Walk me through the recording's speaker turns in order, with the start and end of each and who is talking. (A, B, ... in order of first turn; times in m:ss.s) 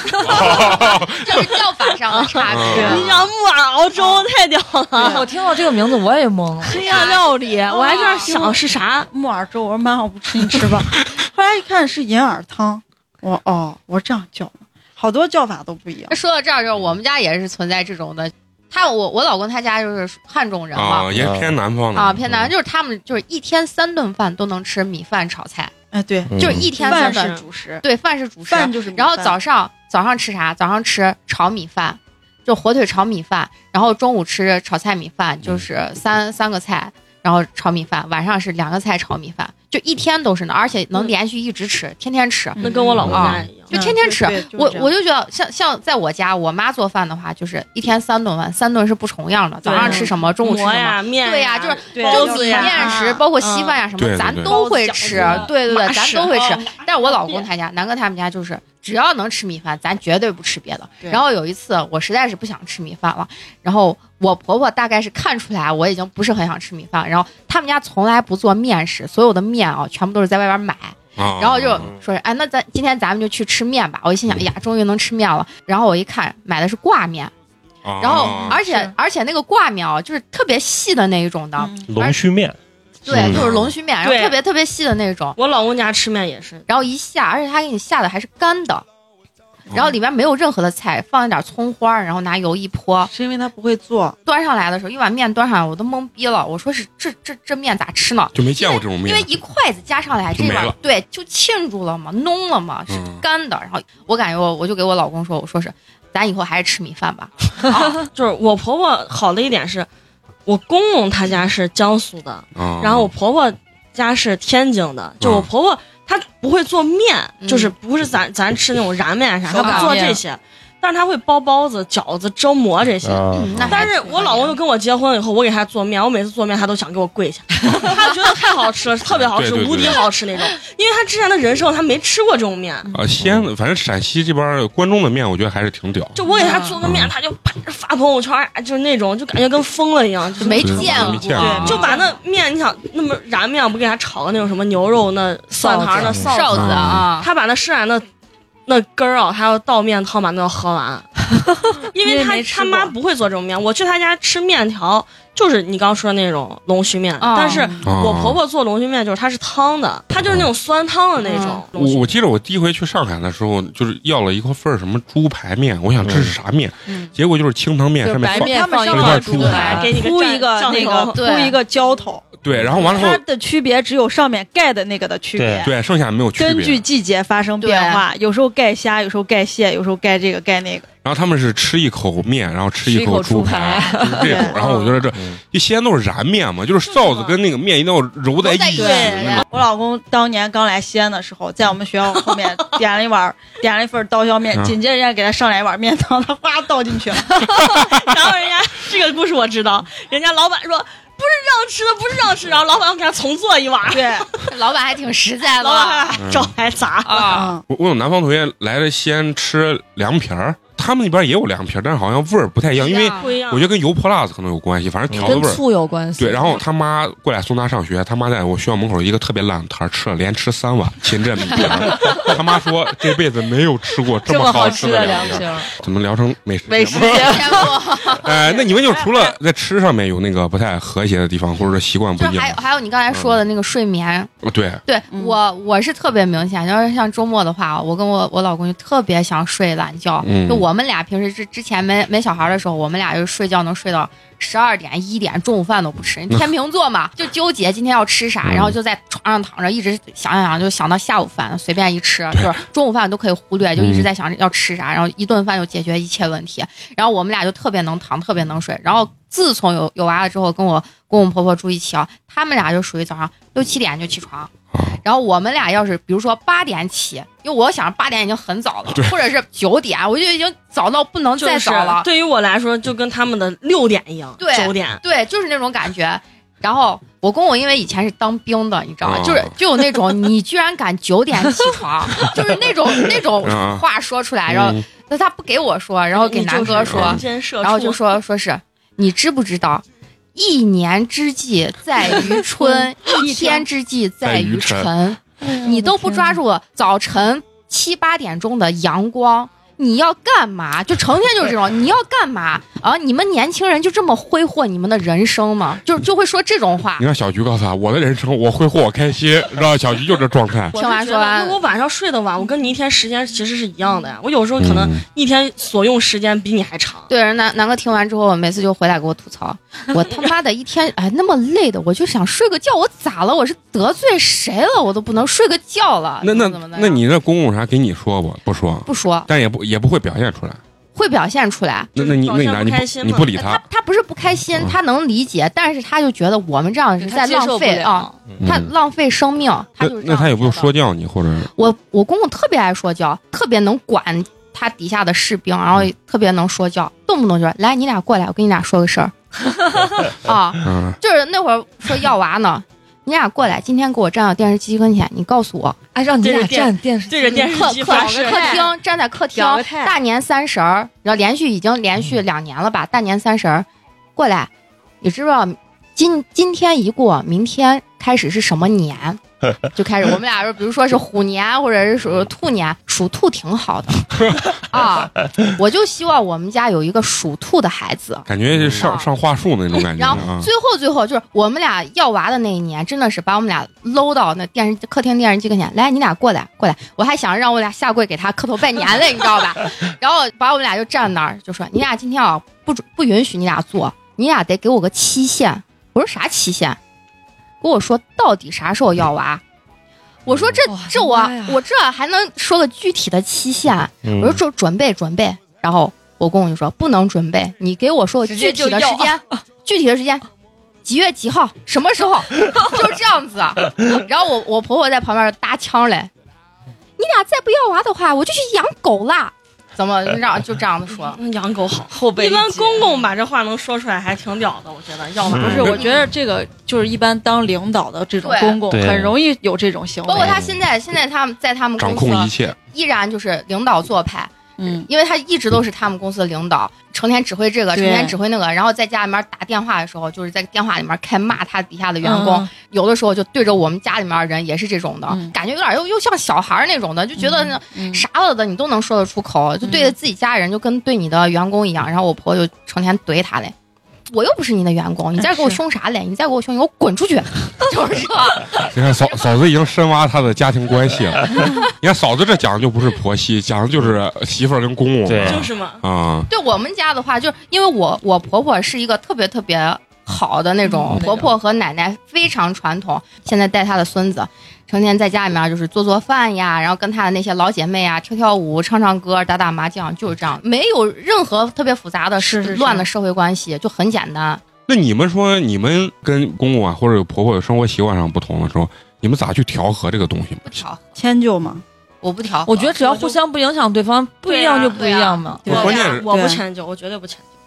0:00.2-0:01.6 A
0:00.3-0:03.1 B
0:00.3-0:00.6 C
0:02.1-0:05.3 D
0:02.5-0:03.2 A
0:02.7-0:03.1 C
0:04.0-0:04.2 C
0:05.0-0:05.3 C
0:05.0-0:06.8 E
0:06.6-0:09.1 D
0:06.8-0:07.2 B
0:06.8-0:08.6 C
0:07.9-0:08.3 B
0:09.1-0:16.1 C
0:16.1-0:21.1 B
0:20.7-0:22.2 A
0:21.1-0:21.6 F
0:21.9-0:25.7 B
0:25.9-0:27.8 C
0:26.3-0:26.7 F
0:26.4-1:17.3 B
0:26.8-0:27.4 D
0:28.5-0:29.4 C
0:42.6-0:44.9 C
0:42.6-0:43.7 D
0:43.0-0:43.4 A
0:49.6-0:50.2 C
0:49.6-0:53.8 D
0:51.9-0:53.2 C
0:54.0-0:55.4 A
0:54.5-0:55.5 C
0:55.0-0:56.6 D
0:56.3-0:56.7 C
1:11.2-1:11.9 A
1:17.8-1:18.6 A
1:18.0-1:22.2 B
1:18.1-1:18.9 C
1:21.6-1:21.9 C
1:21.8-1:22.6 F
1:23.0-1:25.4 B
1:23.1-1:23.5 A
1:23.1-1:23.4 F
1:24.0-1:24.4 D
1:25.4-1:26.6 D
1:26.7-1:28.8 B
1:29.7-1:33.1 B
1:33.1-1:34.2 C
1:34.2-1:48.0 B
1:38.3-1:39.3 A
1:40.3-1:40.8 A
1:42.9-1:43.2 A
1:48.0-1:49.9 D
1:50.4-2:12.9 D
1:52.5-1:53.1 A
1:55.2-1:55.5 A
1:57.4-1:57.7 B
1:59.5-1:59.8 C
1:59.5-2:00.2 E
1:59.6-2:00.0 B
2:03.0-2:03.8 F
2:03.3-2:04.6 B
2:09.0-2:10.0 A
2:12.9-2:16.2 A
2:13.2-2:13.5 F
2:16.2-2:28.0 D
2:16.4-2:16.7 B
2:16.8-2:17.1 A
2:20.4-2:22.0 B
2:20.6-2:21.8 A
2:21.4-2:22.1 C
2:25.6-2:26.2 E
2:26.1-2:27.3 B
2:26.5-2:27.1 A
2:28.7-2:31.1 D
2:31.4-2:32.9 E
2:31.9-2:42.2 D
2:32.0-2:32.9 C
2:37.2-2:37.7 B
2:37.5-2:37.8 C
2:37.8-2:38.4 A
2:41.2-2:41.6 B
2:41.7-2:49.8 A
2:46.0-2:46.3 F
2:48.0-2:52.2 C
2:48.1-2:49.9 E
2:49.4-2:51.2 D
2:51.1-2:51.6 B
2:52.4-2:53.2 A
2:52.8-2:55.7 C
2:55.4-2:55.7 F
2:55.6-2:56.8 A
2:56.4-3:00.9 C
2:57.6-2:58.0 B
3:01.0-3:09.4 A
3:02.8-3:04.5 E
3:04.1-3:04.6 C
3:04.6-3:04.9 D
3:06.9-3:07.4 D
3:08.4-3:09.4 B
3:08.8-3:09.4 D
3:08.8-3:17.6 C
3:12.1-3:12.5 D
3:14.5-3:14.8 A
3:17.6-3:24.3 D
3:23.9-3:24.3 C
3:24.4-3:26.2 B
3:25.5-3:27.5 D
3:26.2-3:26.5 A
3:27.0-3:27.5 B
3:27.2-3:27.6 C
3:27.7-3:35.6 A
3:32.8-3:33.3 B
3:33.2-3:33.7 D
3:35.1-3:35.5 F
3:35.2-3:36.6 E
3:36.2-3:53.4 A
3:44.2-3:45.7 E
3:46.7-3:47.7 E
3:47.0-3:48.4 B
3:48.9-3:49.2 C
3:52.2-3:54.3 B
3:54.4-3:54.8 A
3:54.8-4:24.5 B
3:55.1-3:55.4 C
4:00.2-4:00.7 A
4:08.4-4:08.7 A
4:13.8-4:14.1 A
4:24.7-4:25.0 A
4:25.0-4:32.1 B
4:28.9-4:29.2 A
4:31.4-4:35.0 D
4:34.4-4:49.8 B
4:39.0-4:39.5 A
4:43.4-4:43.8 A
4:44.5-4:44.8 A
4:46.1-4:48.2 D
4:46.6-4:47.2 A
4:50.3-5:07.0 B
4:52.6-4:53.6 C
4:54.2-4:54.9 A
4:55.5-4:56.3 E
5:07.0-5:10.7 A
5:10.7-5:17.1 D
5:10.7-5:11.6 B
5:14.6-5:15.0 A
5:17.1-5:27.0 B
5:20.0-5:20.3 D
5:26.2-5:30.6 A
5:28.9-5:29.3 B
5:31.0-5:31.9 B
5:31.9-5:33.6 A
5:32.0-5:33.3 D
5:33.4-5:40.7 B
5:37.0-5:38.1 E
5:38.4-5:38.7 A
5:39.8-5:41.5 A
5:41.6-5:49.2 B
5:50.1-5:55.8 B
5:50.6-5:51.0 A
5:55.9-5:57.5 E
5:56.2-5:58.7 D
5:57.3-6:04.5 B
5:57.8-5:58.7 C
5:59.3-6:00.0 C
6:05.0-6:14.1 B
6:14.6-6:19.1 B
6:18.3-6:20.5 A
6:18.5-6:18.8 F
6:19.9-6:36.8 B
6:37.6-6:39.4 B
6:40.2-6:50.2 B
6:40.7-6:41.6 E
6:44.0-6:44.4 F
6:48.2-6:49.2 E
6:50.8-6:56.1 B
6:57.0-7:01.2 B
7:01.2-7:05.9 D
7:01.9-7:02.7 E
7:05.2-7:10.4 C
7:05.3-7:05.7 F
7:08.2-7:08.6 B
7:08.7-7:09.1 F
7:10.0-7:14.3 B
7:11.8-7:12.6 A
7:14.6-7:14.9 C
7:14.8-7:33.5 B
7:17.7-7:18.2 C
7:22.0-7:22.4 C
7:25.1-7:25.3 C
7:27.2-7:28.0 C
7:29.6-7:29.9 C
7:34.1-7:38.5 B
7:35.2-7:35.6 C
7:38.6-7:46.3 A
7:45.0-7:45.5 F
7:45.2-7:45.8 D
7:46.3-8:04.4 B
8:02.2-8:02.9 C
8:04.7-8:10.6 A
8:10.4-8:10.8 B
8:11.0-8:11.6 C
8:12.0-8:13.0 B
8:12.4-8:15.6 E
8:14.2-8:14.8 D
8:14.6-8:15.6 B
8:15.4-8:16.4 C
8:15.4-8:16.0 A
8:15.5-8:17.2 D